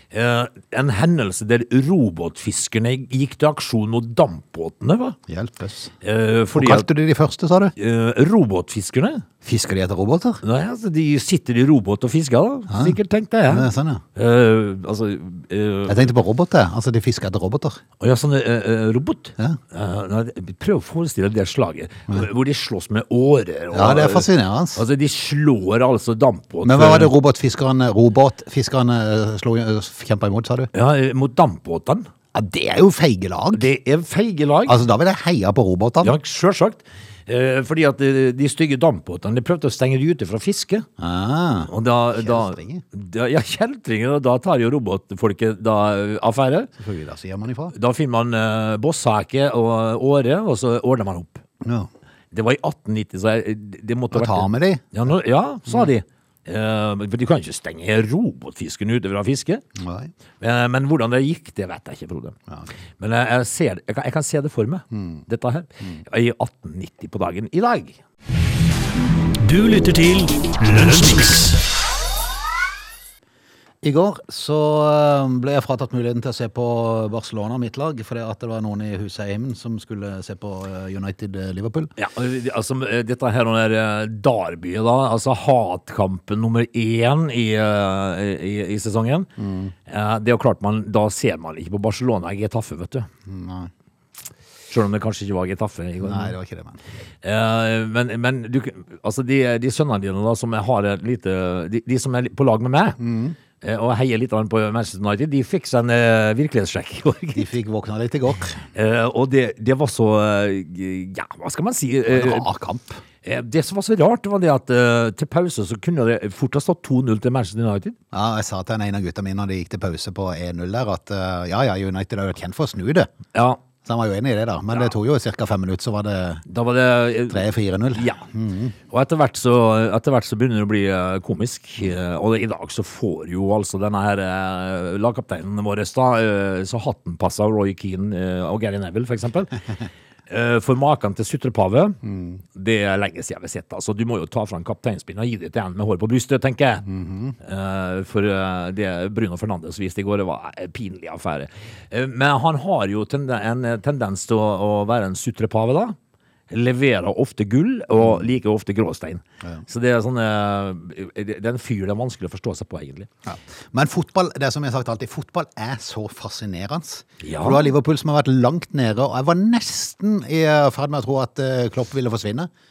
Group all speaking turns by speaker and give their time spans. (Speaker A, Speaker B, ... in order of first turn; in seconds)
Speaker A: 0.1-5.2, 6.0-6.9, 7.8-9.2, 10.4-16.0, 18.0-27.1, 30.7-32.1, 33.5-34.8, 36.0-40.9, 41.7-46.7, 47.7-51.4, 52.3-59.6, 60.4-62.4, 63.0-68.0, 82.0-89.3, 89.8-93.1, 94.7-96.3, 97.2-103.0, 103.6-107.5, 108.7-112.5, 113.2-118.0, 123.3-123.6, 126.5-127.4, 127.9-128.2, 128.9-139.6, 140.3-142.0, 142.5-146.9, 147.4-156.0, 156.5-163.1, 167.2-167.7
Speaker B: 5.3-5.9, 6.5-7.7, 9.4-10.4, 12.7-12.9, 13.5-14.0, 15.9-17.8, 23.7-24.8, 26.6-30.7, 32.3-33.7, 34.7-36.1, 41.0-42.8, 46.8-47.7, 51.6-51.9, 54.1-54.9, 59.8-60.1, 64.9-65.2, 73.8-81.9, 89.4-89.7, 93.2-93.7, 96.0-96.8, 103.0-103.3, 107.3-108.6, 112.1-113.0, 118.1-123.1, 123.8-126.4, 127.3-128.8, 142.0-142.4, 146.9-147.3, 158.0-158.2, 163.2-172.5
Speaker C: 69.4-71.6